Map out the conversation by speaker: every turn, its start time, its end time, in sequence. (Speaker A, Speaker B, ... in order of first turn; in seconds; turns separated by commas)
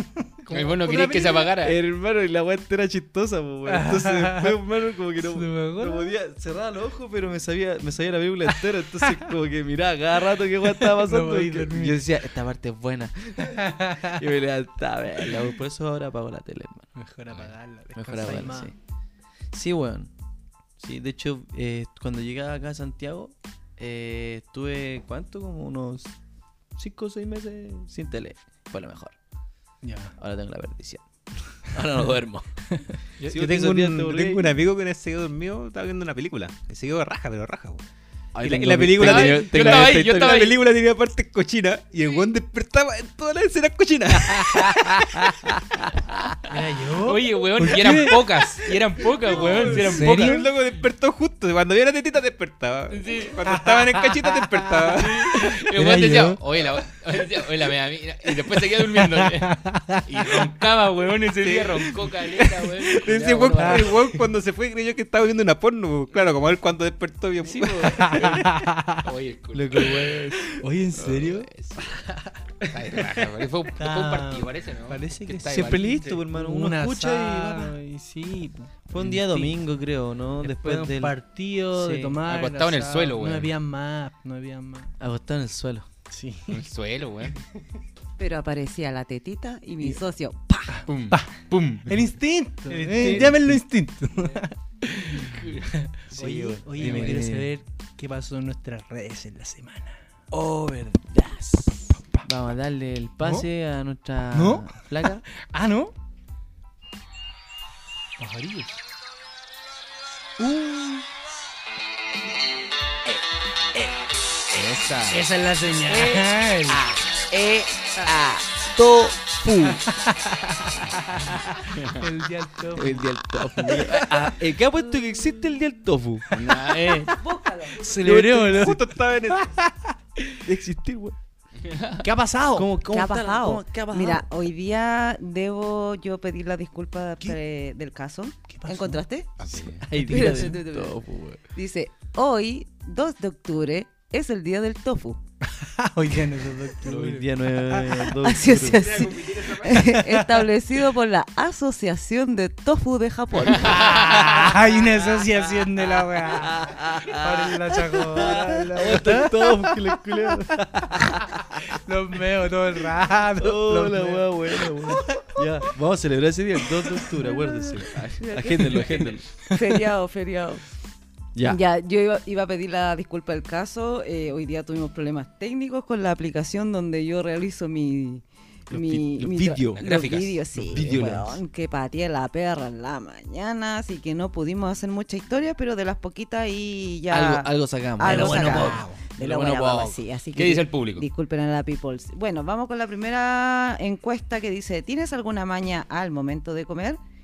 Speaker A: 0.2-1.5, Speaker B: 0.5-1.8, Speaker C: 1.6-16.9, Speaker A: 3.7-4.6, Speaker A: 5.2-6.1, Speaker A: 10.6-12.1, Speaker A: 13.4-14.2, Speaker A: 17.0-18.7, Speaker C: 17.9-18.7, Speaker C: 19.5-20.1, Speaker C: 20.8-26.1, Speaker C: 26.8-29.2, Speaker A: 29.8-30.1, Speaker C: 30.2-34.6, Speaker D: 33.2-37.8, Speaker C: 38.4-40.5, Speaker D: 38.4-45.1, Speaker B: 39.0-40.6, Speaker A: 46.5-48.4, Speaker B: 46.9-50.4, Speaker D: 49.4-55.2, Speaker A: 49.4-50.5, Speaker B: 52.9-53.5, Speaker A: 53.6-56.4, Speaker B: 54.9-64.0, Speaker A: 59.0-60.1, Speaker D: 61.4-68.3, Speaker A: 63.6-64.2, Speaker B: 67.4-70.1, Speaker A: 67.9-69.1, Speaker C: 69.5-70.6, Speaker A: 70.6-71.5, Speaker B: 71.0-72.0, Speaker B: 72.6-76.1, Speaker A: 73.8-79.6, Speaker C: 75.5-77.8, Speaker C: 78.9-81.2, Speaker A: 80.4-84.9, Speaker C: 81.7-82.2, Speaker B: 82.3-83.5, Speaker C: 85.0-85.9, Speaker A: 86.1-86.6, Speaker B: 86.5-87.4, Speaker E: 88.2-90.8, Speaker A: 90.7-100.0, Speaker B: 90.9-92.0, Speaker C: 92.7-93.6, Speaker C: 95.1-97.5, Speaker C: 100.3-105.2, Speaker A: 103.2-103.5, Speaker A: 104.3-105.9, Speaker A: 108.2-108.8, Speaker A: 110.4-111.0, Speaker B: 114.5-115.2, Speaker A: 115.1-116.8, Speaker C: 115.9-119.8, Speaker A: 119.9-124.4, Speaker B: 121.7-122.0, Speaker C: 122.8-126.3, Speaker B: 126.3-127.2, Speaker A: 126.3-127.1, Speaker E: 127.2-127.9, Speaker A: 127.8-130.4, Speaker C: 127.8-128.7, Speaker D: 128.4-129.5, Speaker C: 130.4-131.2, Speaker B: 131.6-132.1, Speaker A: 132.0-132.7, Speaker C: 132.6-134.3, Speaker E: 132.9-139.3, Speaker A: 138.5-139.0, Speaker B: 139.4-139.9, Speaker C: 139.5-141.4, Speaker A: 140.0-140.6, Speaker E: 140.1-141.0, Speaker E: 141.5-145.2, Speaker A: 145.5-148.1, Speaker C: 146.8-149.1, Speaker E: 148.1-154.4, Speaker D: 148.7-149.9, Speaker A: 149.6-150.5, Speaker A: 153.5-165.4, Speaker C: 156.2-161.8, Speaker C: 163.4-169.3, Speaker A: 166.8-167.3, Speaker E: 167.4-170.7, Speaker A: 169.5-169.8, Speaker C: 171.3-171.6, Speaker E: 171.4-197.0, Speaker C: 178.7-179.9, Speaker B: 179.8-180.8, Speaker C: 180.6-181.4, Speaker C: 187.1-190.0, Speaker A: 188.0-189.0, Speaker B: 190.3-191.1